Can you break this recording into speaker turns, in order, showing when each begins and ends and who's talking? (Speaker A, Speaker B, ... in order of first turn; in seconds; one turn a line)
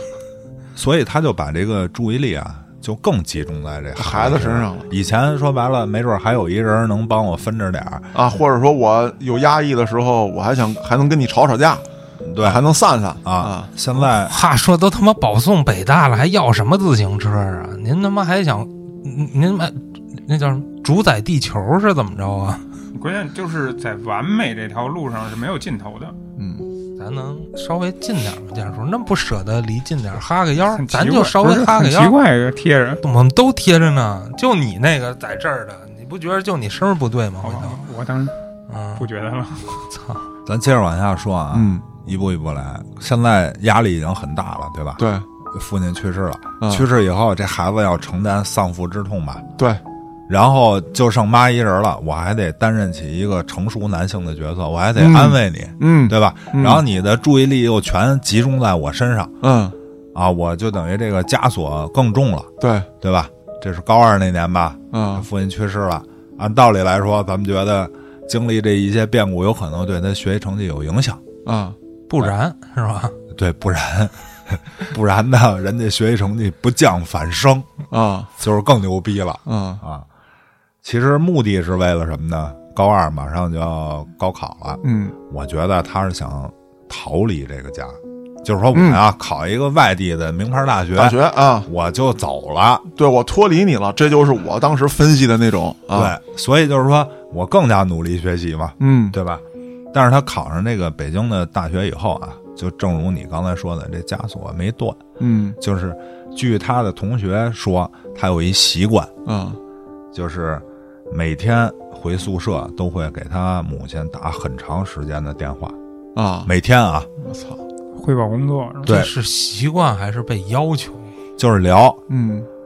Speaker A: 0.7-8.1
Speaker B: 4.0-4.9
Speaker B: 8.1-11.8
Speaker A: 12.2-12.6
Speaker B: 12.4-13.7
Speaker A: 13.2-14.3
Speaker C: 13.9-22.7
Speaker D: 22.9-26.1
Speaker B: 26.4-26.7
Speaker C: 27.0-32.1
Speaker D: 30.6-33.0
Speaker C: 33.0-37.8
Speaker D: 37.4-38.3
Speaker C: 38.7-39.0
Speaker D: 38.9-39.9
Speaker C: 39.9-40.2
Speaker A: 40.5-49.4
Speaker B: 41.5-41.8
Speaker B: 45.0-45.2
Speaker B: 46.6-46.9
Speaker A: 50.3-59.3
Speaker B: 55.0-56.8
Speaker B: 59.4-59.7
Speaker A: 60.1-62.5
Speaker B: 62.6-62.9
Speaker A: 63.0-71.2
Speaker B: 64.9-65.2
Speaker B: 71.4-71.8
Speaker C: 72.1-73.2
Speaker A: 73.3-77.7
Speaker B: 77.9-78.3
Speaker A: 78.4-80.0
Speaker B: 79.5-79.8
Speaker A: 80.8-92.8
Speaker B: 84.8-85.1
Speaker B: 88.7-89.0
Speaker B: 90.9-91.7
Speaker B: 93.0-96.1
Speaker A: 95.9-105.0
Speaker B: 98.8-99.2
Speaker B: 105.2-105.6
Speaker A: 105.6-109.1
Speaker B: 109.2-109.6
Speaker A: 110.1-115.8
Speaker B: 116.2-116.5
Speaker A: 116.4-117.1
Speaker B: 117.2-117.6
Speaker D: 117.9-119.0
Speaker C: 118.8-121.1
Speaker A: 121.4-122.0
Speaker B: 122.1-122.5